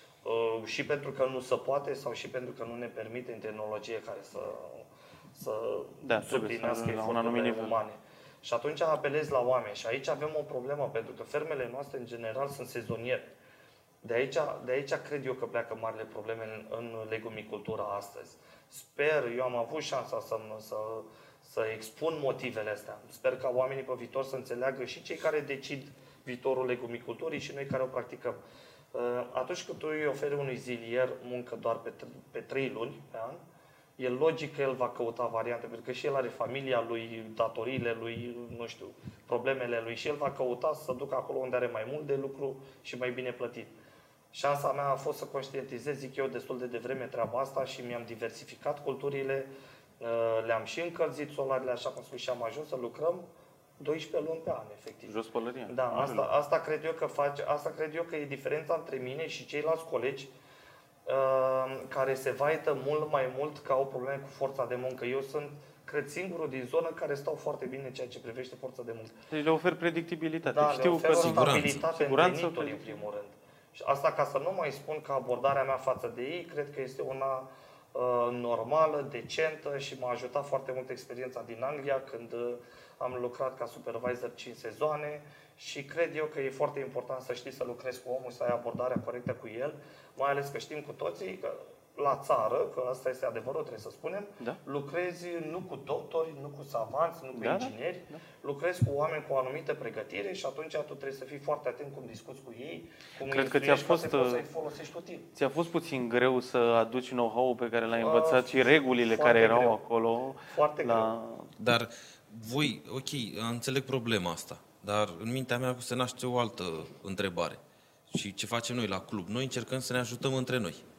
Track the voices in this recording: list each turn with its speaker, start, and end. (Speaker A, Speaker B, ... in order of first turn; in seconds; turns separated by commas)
Speaker A: 0.2-13.3, Speaker B: 6.0-7.8, Speaker A: 14.0-28.4, Speaker A: 28.9-33.4, Speaker A: 34.0-43.7, Speaker A: 44.3-53.2, Speaker A: 53.8-55.1, Speaker B: 55.1-56.3, Speaker A: 55.7-60.3, Speaker A: 61.0-69.1, Speaker B: 69.3-73.0, Speaker A: 70.4-105.3, Speaker C: 71.2-71.8, Speaker B: 97.3-98.2, Speaker B: 103.2-104.4, Speaker B: 105.3-111.5, Speaker A: 107.9-108.5, Speaker A: 109.0-109.8, Speaker A: 110.5-111.1, Speaker C: 111.6-120.8